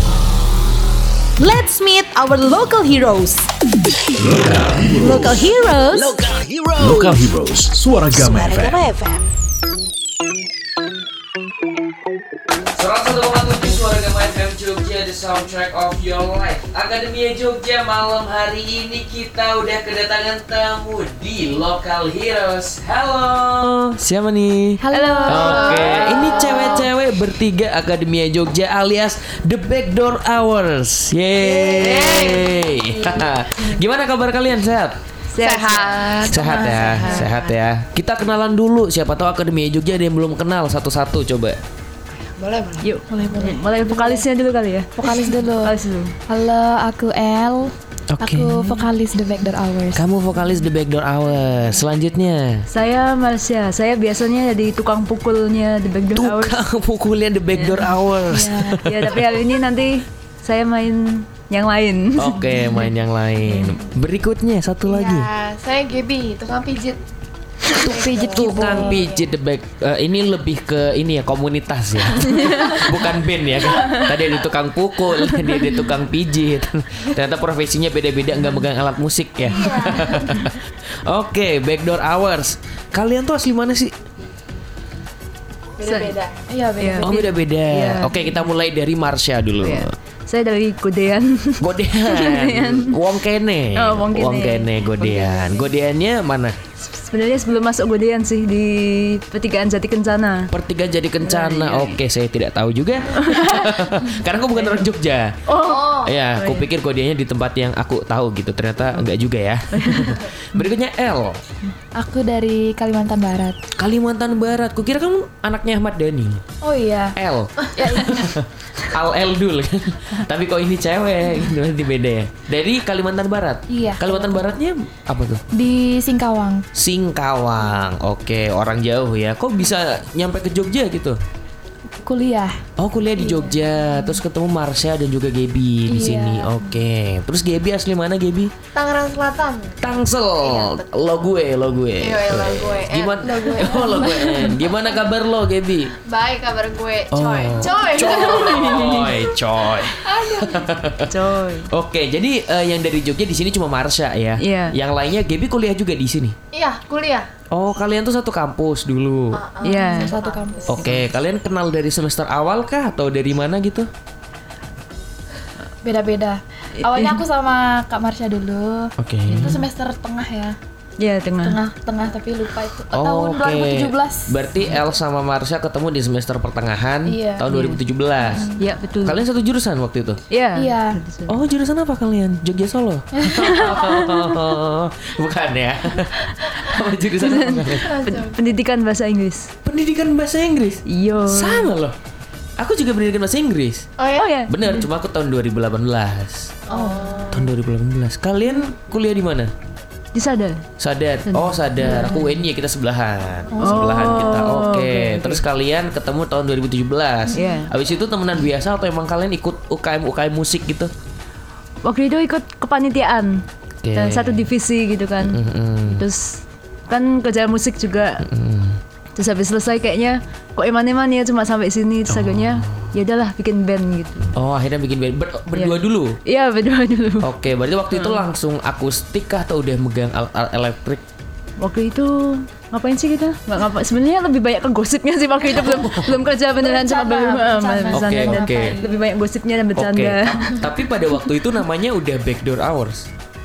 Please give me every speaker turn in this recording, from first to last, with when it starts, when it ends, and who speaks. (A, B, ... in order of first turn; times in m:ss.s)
0:01.4-0:03.5 A
0:04.2-0:08.8 B
0:04.9-0:06.2 A
0:06.8-0:07.2 A
0:08.2-0:09.2 A
0:12.7-0:35.0 C
0:24.8-0:26.6 D
0:24.9-0:26.2 E
0:25.6-0:26.8 F
0:31.4-0:32.7 F
0:35.3-0:37.2 E
0:35.4-0:37.5 F
0:36.2-0:41.6 C
0:42.4-0:43.2 F
0:42.8-0:46.1 E
0:43.1-0:44.2 D
0:45.0-0:45.7 D
0:45.0-0:45.3 F
0:46.3-0:50.0 D
0:48.1-0:48.9 C
0:49.9-0:52.6 C
0:52.7-0:56.6 E
0:56.1-0:59.3 C
0:57.6-0:57.8 E
0:58.3-0:58.8 D
0:58.8-1:02.9 E
1:02.2-1:05.3 C
1:03.4-1:03.7 E
1:04.8-1:07.0 F
1:07.7-1:09.3 F
1:07.7-1:09.0 E
1:07.8-1:23.9 C
1:12.3-1:12.8 E
1:18.4-1:18.6 E
1:19.5-1:20.0 D
1:25.8-1:26.4 F
1:25.8-1:26.2 E
1:26.5-1:27.2 D
1:26.8-1:28.4 E
1:27.0-1:29.9 C
1:29.6-1:33.0 E
1:31.6-1:36.6 C
1:33.7-1:35.7 E
1:36.8-1:40.5 E
1:40.5-1:45.4 C
1:41.2-1:42.0 E
1:43.2-1:43.8 E
1:44.6-1:44.8 E
1:45.5-1:46.7 E
1:45.5-1:46.2 F
1:45.9-1:51.4 C
1:49.7-1:50.6 E
1:52.0-1:53.6 D
1:53.8-1:56.4 C
1:56.6-1:58.4 D
1:57.1-2:05.4 C
2:03.7-2:04.5 D
2:05.5-2:06.6 D
2:06.7-2:11.2 C
2:12.0-2:12.6 D
2:12.8-2:18.5 C
2:15.9-2:16.6 D
2:18.7-2:24.9 F
2:19.8-2:25.9 C
2:23.4-2:24.6 D
2:26.0-2:29.2 F
2:27.1-2:36.4 C
2:27.6-2:28.9 E
2:29.8-2:30.7 F
2:31.1-2:31.7 E
2:34.4-2:34.7 E
2:36.5-2:37.3 F
2:37.5-2:39.4 C
2:39.3-2:40.8 F
2:39.6-2:40.2 E
2:39.8-2:40.8 D
2:40.7-2:43.9 C
2:45.8-2:50.6 D
2:46.8-2:47.2 E
2:49.0-2:49.6 C
2:49.3-2:49.6 E
2:51.0-2:51.6 E
2:51.4-2:54.5 D
2:52.9-2:58.5 C
2:57.0-2:57.5 D
2:57.5-2:57.8 E
2:58.2-2:58.6 D
2:58.6-2:59.2 E
2:59.0-3:00.2 C
3:00.3-3:01.4 E
3:00.5-3:01.0 D
3:01.3-3:07.9 C
3:03.2-3:03.6 D
3:03.3-3:04.2 E
3:07.2-3:09.5 E
3:07.8-3:08.5 F
3:09.6-3:12.0 C
3:10.9-3:11.7 E
3:12.6-3:13.9 C
3:14.0-3:14.4 F
3:14.2-3:14.8 E
3:14.5-3:16.6 C
3:16.7-3:17.5 F
3:17.3-3:19.5 C
3:20.1-3:20.6 E
3:20.8-3:30.9 C
3:21.2-3:22.3 E
3:23.5-3:24.2 F
3:23.6-3:25.4 E
3:27.3-3:27.7 E
3:31.8-3:38.2 E
3:33.8-3:34.5 C
3:35.2-3:36.0 C
3:38.2-3:38.8 C
3:39.2-3:44.3 E
3:42.1-3:42.9 C
3:44.3-3:46.2 C
3:45.5-3:47.3 E
3:47.2-3:51.0 C
3:47.9-3:48.3 E
3:51.6-4:00.6 E
3:55.6-3:56.2 C
3:56.6-3:59.0 D
3:57.9-3:58.8 C
3:59.7-4:03.1 C